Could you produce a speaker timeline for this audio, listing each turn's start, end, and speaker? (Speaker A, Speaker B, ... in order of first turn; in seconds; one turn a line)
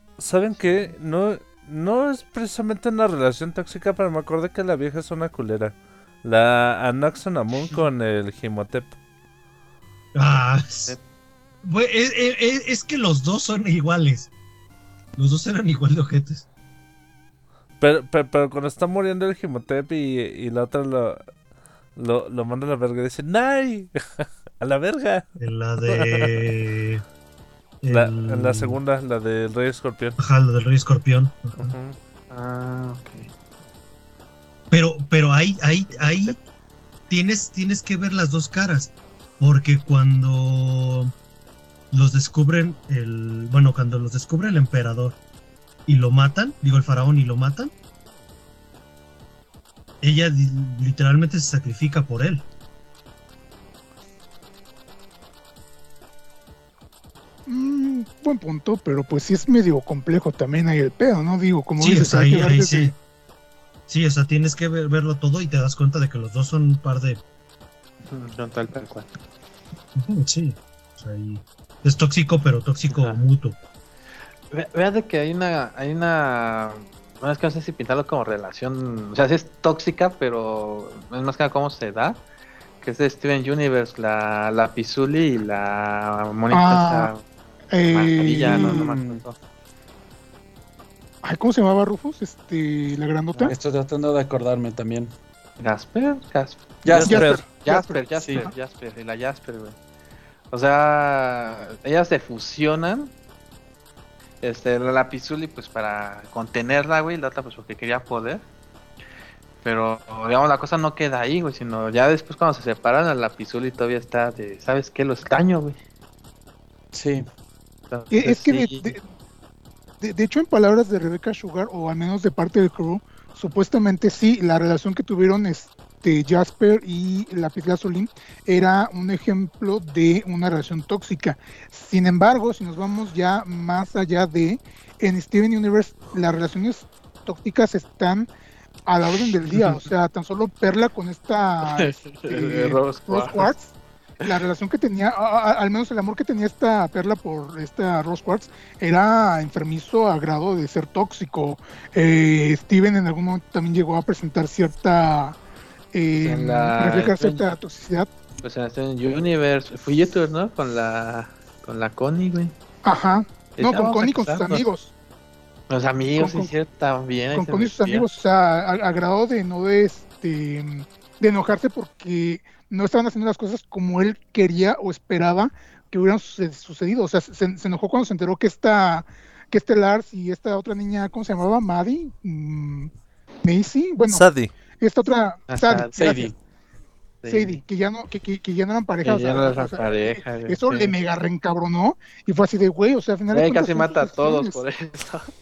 Speaker A: 0.2-8.9
Speaker B: 0.6-0.9
Speaker C: 10.2-11.0
Speaker C: 11.6-14.3
Speaker C: 15.2-16.4
Speaker A: 17.8-21.2
Speaker A: 22.0-25.3
Speaker C: 25.4-27.0
Speaker A: 25.9-26.5
Speaker C: 27.8-28.8
Speaker A: 27.9-30.2
Speaker C: 30.2-31.8
Speaker B: 31.6-33.3
Speaker C: 34.7-36.4
Speaker B: 35.9-36.4
Speaker C: 37.1-41.1
Speaker C: 41.9-45.2
Speaker C: 45.9-47.7
Speaker C: 50.0-52.5
Speaker D: 57.5-62.9
Speaker C: 61.8-63.0
Speaker C: 63.9-67.2
Speaker B: 68.0-69.1
Speaker C: 70.0-73.6
Speaker B: 72.9-73.2
Speaker B: 74.5-82.2
Speaker B: 82.8-87.2
Speaker D: 86.5-87.1
Speaker D: 87.7-88.8
Speaker B: 87.9-89.4
Speaker E: 88.4-89.2
Speaker D: 91.2-93.5
Speaker E: 93.5-95.1
Speaker B: 95.6-99.8
Speaker E: 96.8-97.5
Speaker D: 97.0-98.0
Speaker E: 98.2-98.5
Speaker B: 100.5-103.1
Speaker B: 104.4-108.5
Speaker B: 109.6-115.8
Speaker E: 116.9-117.3
Speaker B: 117.9-118.9
Speaker D: 118.1-119.0
Speaker D: 120.0-138.3
Speaker D: 138.9-155.4
Speaker B: 141.7-143.5
Speaker D: 155.9-158.1
Speaker B: 156.2-157.5
Speaker B: 158.4-162.5
Speaker D: 162.8-164.9
Speaker B: 163.6-164.7
Speaker B: 165.7-168.1
Speaker D: 166.2-166.5
Speaker D: 167.3-182.9
Speaker D: 183.4-184.3
Speaker A: 184.1-184.5
Speaker D: 184.8-186.3
Speaker B: 185.5-186.1
Speaker E: 185.9-186.4
Speaker B: 187.2-187.6
Speaker D: 187.3-194.6
Speaker B: 189.0-190.9
Speaker B: 193.3-195.3